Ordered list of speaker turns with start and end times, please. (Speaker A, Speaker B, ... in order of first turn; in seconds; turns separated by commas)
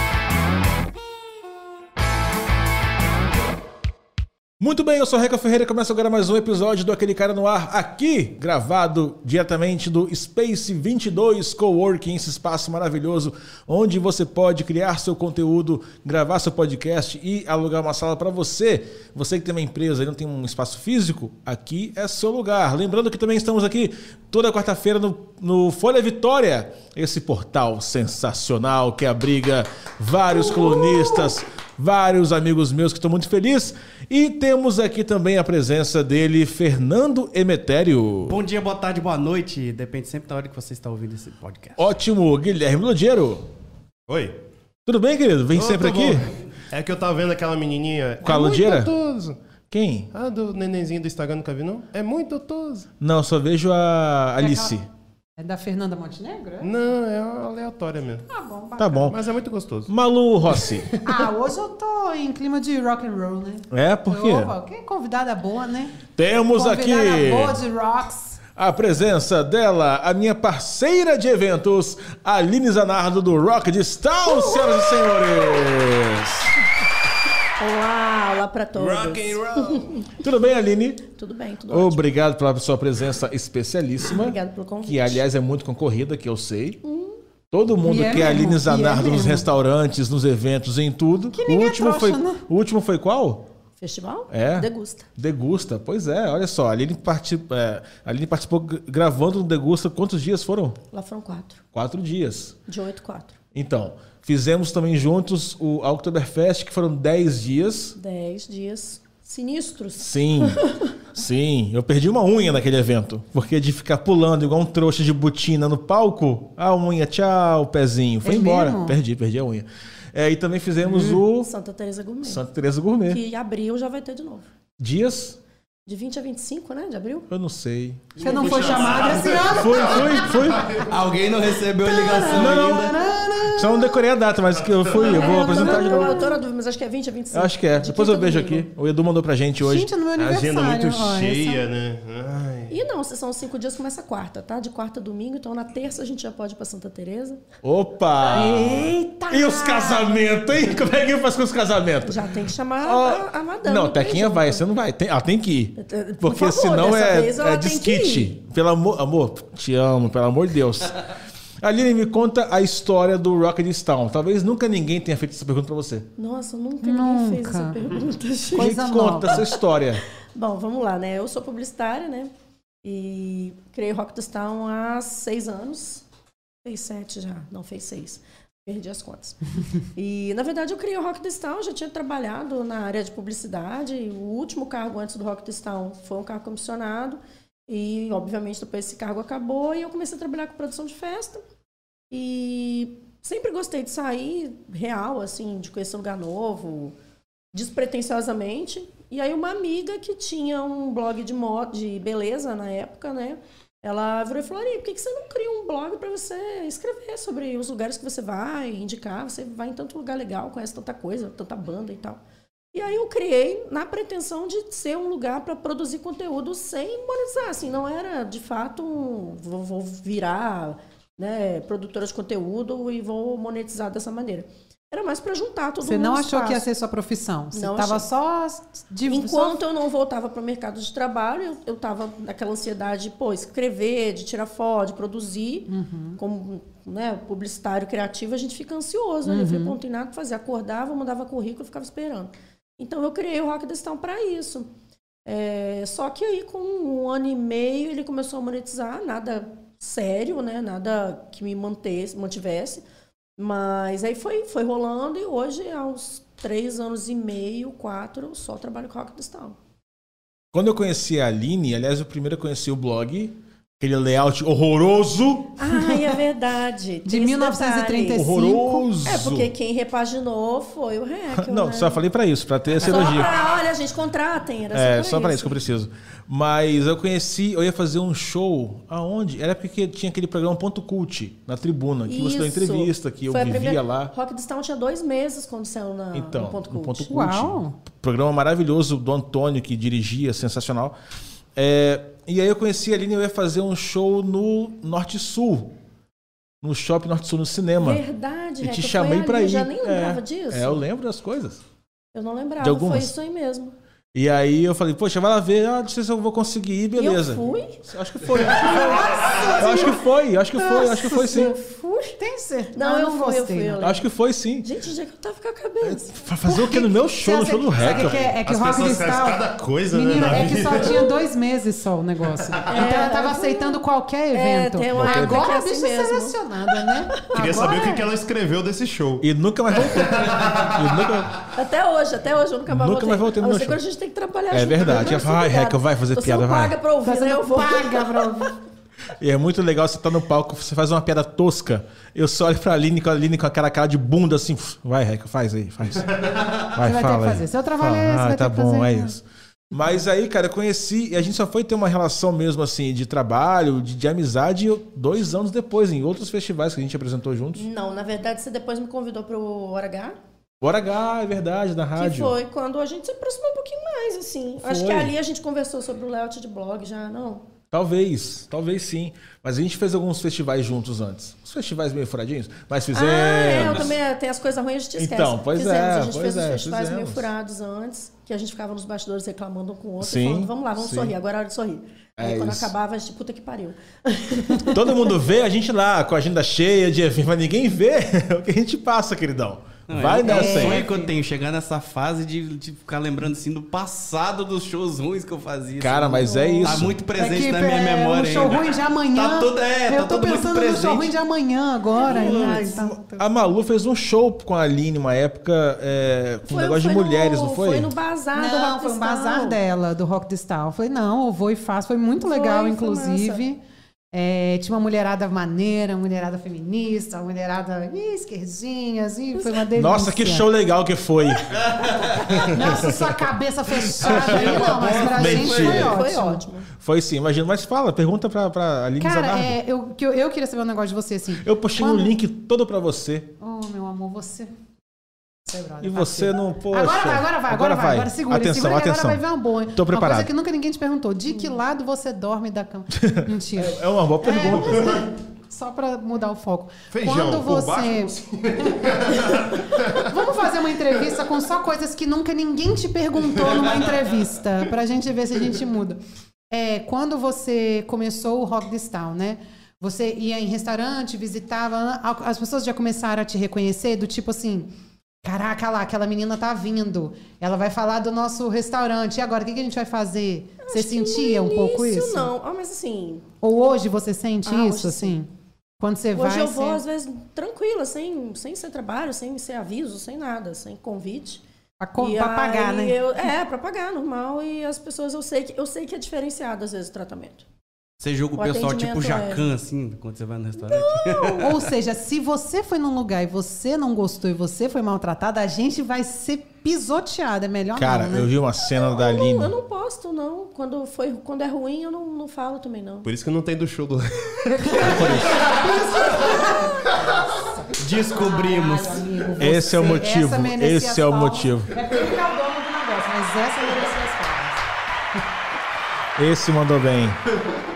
Speaker A: 4.6-38.4, Speaker B: 30.4-30.9, Speaker C: 38.2-41.9, Speaker A: 41.8-43.5, Speaker D: 44.1-44.4, Speaker A: 44.9-46.3, Speaker C: 45.6-46.4, Speaker D: 46.7-49.4, Speaker A: 48.2-48.9, Speaker A: 49.7-50.1, Speaker D: 50.1-52.9, Speaker A: 53.0-54.9, Speaker B: 54.4-54.8, Speaker B: 55.4-56.7, Speaker D: 56.6-58.2, Speaker B: 58.3-59.1, Speaker A: 58.8-59.2, Speaker D: 59.1-59.9, Speaker A: 59.9-61.2, Speaker B: 60.9-66.0, Speaker A: 63.7-64.5, Speaker A: 66.2-67.6, Speaker B: 66.5-68.4, Speaker A: 68.6-76.5, Speaker E: 74.2-75.7, Speaker E: 77.6-80.2, Speaker C: 78.8-79.7, Speaker A: 80.2-81.0, Speaker E: 81.1-82.0, Speaker A: 81.7-86.8, Speaker E: 84.1-85.2, Speaker E: 86.8-87.2, Speaker A: 87.5-93.4, Speaker B: 87.8-89.5, Speaker B: 91.3-92.4, Speaker E: 93.8-95.1, Speaker A: 94.3-100.8, Speaker E: 100.9-101.6, Speaker A: 101.7-102.6, Speaker E: 102.7-103.4, Speaker A: 103.5-108.0, Speaker E: 108.0-110.9, Speaker A: 110.0-110.6, Speaker A: 111.2-121.5, Speaker B: 118.2-119.0, Speaker B: 120.9-121.2, Speaker E: 121.4-122.4, Speaker A: 122.2-123.2, Speaker E: 123.1-124.5, Speaker A: 124.8-125.4, Speaker E: 125.8-127.3, Speaker A: 127.3-128.2, Speaker D: 128.2-129.3, Speaker B: 128.2-130.8, Speaker C: 128.4-129.5, Speaker A: 129.4-130.8, Speaker C: 130.7-133.0, Speaker E: 131.8-132.7, Speaker A: 132.3-133.0, Speaker B: 132.7-134.0, Speaker A: 133.5-136.3, Speaker E: 134.9-138.7, Speaker B: 134.9-136.4, Speaker A: 137.3-139.9, Speaker B: 139.6-141.6, Speaker D: 140.2-142.8, Speaker E: 142.7-147.4, Speaker A: 147.6-152.3, Speaker B: 148.2-150.1, Speaker E: 152.0-154.6, Speaker A: 152.8-161.1, Speaker E: 155.8-158.3, Speaker A: 161.6-166.1, Speaker E: 166.2-168.7, Speaker B: 166.8-167.8, Speaker B: 168.5-169.4, Speaker A: 168.5-170.0, Speaker E: 170.2-172.3, Speaker E: 172.8-176.0, Speaker E: 176.6-191.4, Speaker E: 192.1-196.9, Speaker E: 197.5-212.2, Speaker E: 212.7-226.7, Speaker B: 225.8-229.6, Speaker E: 227.5-228.0, Speaker E: 229.1-244.7, Speaker B: 235.7-236.2, Speaker B: 239.2-239.8, Speaker E: 245.2-252.8, Speaker E: 253.4-259.6, Speaker A: 260.5-265.7, Speaker E: 265.6-268.4, Speaker B: 267.0-268.9, Speaker A: 268.1-269.5, Speaker E: 269.0-272.0, Speaker A: 271.3-273.4, Speaker E: 272.8-275.6, Speaker A: 274.7-284.1, Speaker E: 282.1-287.2, Speaker A: 286.1-290.9, Speaker B: 287.1-287.8, Speaker A: 291.6-295.7, Speaker A: 296.6-298.0, Speaker E: 297.8-300.8, Speaker A: 298.6-301.6, Speaker E: 302.1-303.8, Speaker A: 302.6-303.1, Speaker A: 304.1-311.6, Speaker E: 307.0-307.8, Speaker E: 308.5-310.0, Speaker B: 308.6-310.0, Speaker E: 310.6-312.2, Speaker B: 310.6-311.6, Speaker B: 312.2-313.8, Speaker E: 312.7-314.1, Speaker A: 313.8-314.7, Speaker E: 314.6-316.2, Speaker A: 315.8-318.3, Speaker B: 316.4-328.1, Speaker D: 317.8-321.1, Speaker E: 322.7-323.8, Speaker E: 324.3-327.5, Speaker A: 324.9-325.5, Speaker D: 327.4-330.8, Speaker A: 329.2-331.4, Speaker E: 331.5-338.4, Speaker A: 332.7-333.8, Speaker A: 334.5-336.8, Speaker B: 337.0-338.5, Speaker A: 339.2-346.2, Speaker A: 346.7-357.7, Speaker B: 346.8-349.1, Speaker E: 357.6-360.2, Speaker A: 360.6-362.3, Speaker E: 362.0-367.5, Speaker A: 364.6-365.1, Speaker A: 367.7-373.9, Speaker E: 372.9-385.1, Speaker A: 375.0-377.3, Speaker A: 380.0-381.1, Speaker A: 382.2-382.7, Speaker A: 384.7-390.8, Speaker C: 389.9-401.1, Speaker B: 390.2-391.1, Speaker A: 395.8-397.0, Speaker B: 396.4-403.2, Speaker E: 401.9-402.8, Speaker A: 402.1-407.9, Speaker E: 406.4-409.6, Speaker B: 408.4-413.6, Speaker E: 412.2-413.4, Speaker B: 414.1-420.5, Speaker A: 419.7-421.6, Speaker A: 422.4-426.0, Speaker B: 422.5-426.4, Speaker C: 424.2-425.8, Speaker E: 425.2-426.7, Speaker A: 426.8-429.6, Speaker B: 429.0-432.1, Speaker A: 431.4-433.3, Speaker B: 433.4-434.5, Speaker B: 435.4-448.1, Speaker A: 435.8-440.3, Speaker A: 442.9-445.0, Speaker D: 444.8-445.0, Speaker D: 446.9-450.1, Speaker B: 448.6-448.9, Speaker B: 449.9-464.7, Speaker B: 465.2-472.3, Speaker E: 470.6-473.3, Speaker B: 473.4-475.3, Speaker E: 474.4-475.2, Speaker B: 475.8-476.8, Speaker E: 476.1-481.4, Speaker B: 481.8-483.3, Speaker E: 482.0-487.4, Speaker C: 488.0-491.6, Speaker E: 488.4-489.4, Speaker E: 490.6-491.5, Speaker B: 491.4-498.3, Speaker A: 497.8-499.5, Speaker E: 498.7-503.1, Speaker D: 503.0-505.6, Speaker B: 504.5-506.8, Speaker A: 504.8-505.4, Speaker C: 507.8-509.1, Speaker B: 508.1-514.6, Speaker A: 509.4-511.8, Speaker A: 516.2-517.2